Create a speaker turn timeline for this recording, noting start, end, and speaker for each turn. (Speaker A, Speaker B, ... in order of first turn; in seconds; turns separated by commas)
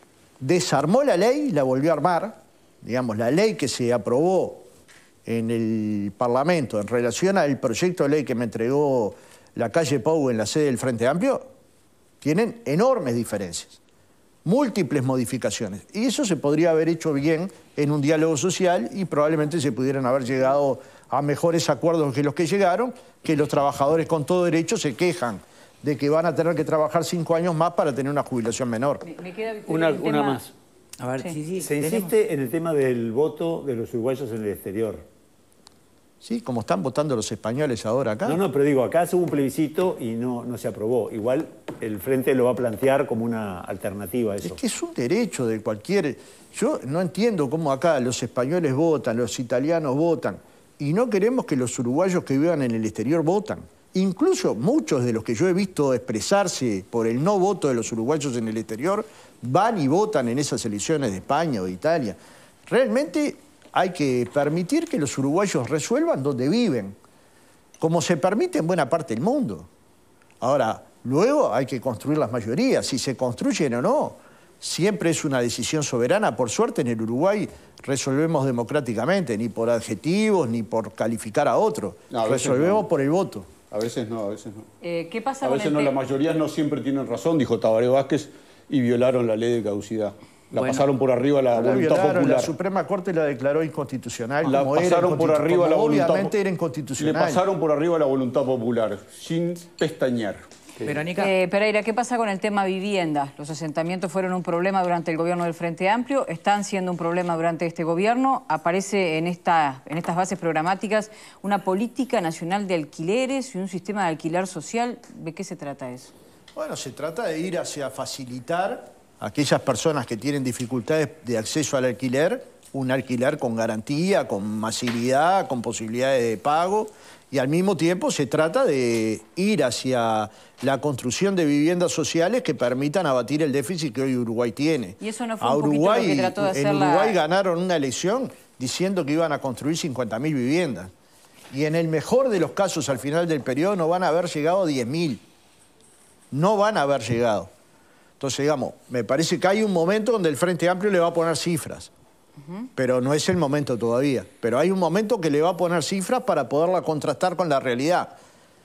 Speaker A: 0.4-4.7, Speaker A: 5.2-11.4, Speaker A: 12.2-13.8, Speaker A: 14.4-29.1, Speaker B: 29.0-30.5, Speaker C: 29.7-30.4, Speaker D: 29.8-30.3, Speaker E: 31.0-32.1, Speaker C: 31.6-35.0, Speaker A: 36.2-38.4, Speaker C: 38.2-44.6, Speaker A: 44.4-67.0, Speaker A: 67.8-69.7, Speaker A: 70.4-83.5, Speaker D: 82.1-82.8, Speaker D: 83.7-84.7, Speaker B: 84.8-85.9, Speaker D: 85.4-92.5, Speaker E: 90.5-90.8, Speaker A: 91.5-97.4, Speaker D: 94.4-96.3, Speaker D: 97.0-100.4, Speaker E: 100.8-101.3, Speaker B: 101.2-116.1, Speaker A: 116.5-140.9, Speaker B: 135.0-137.2, Speaker A: 141.5-145.2, Speaker A: 146.3-147.5, Speaker A: 148.2-151.9, Speaker A: 152.8-158.1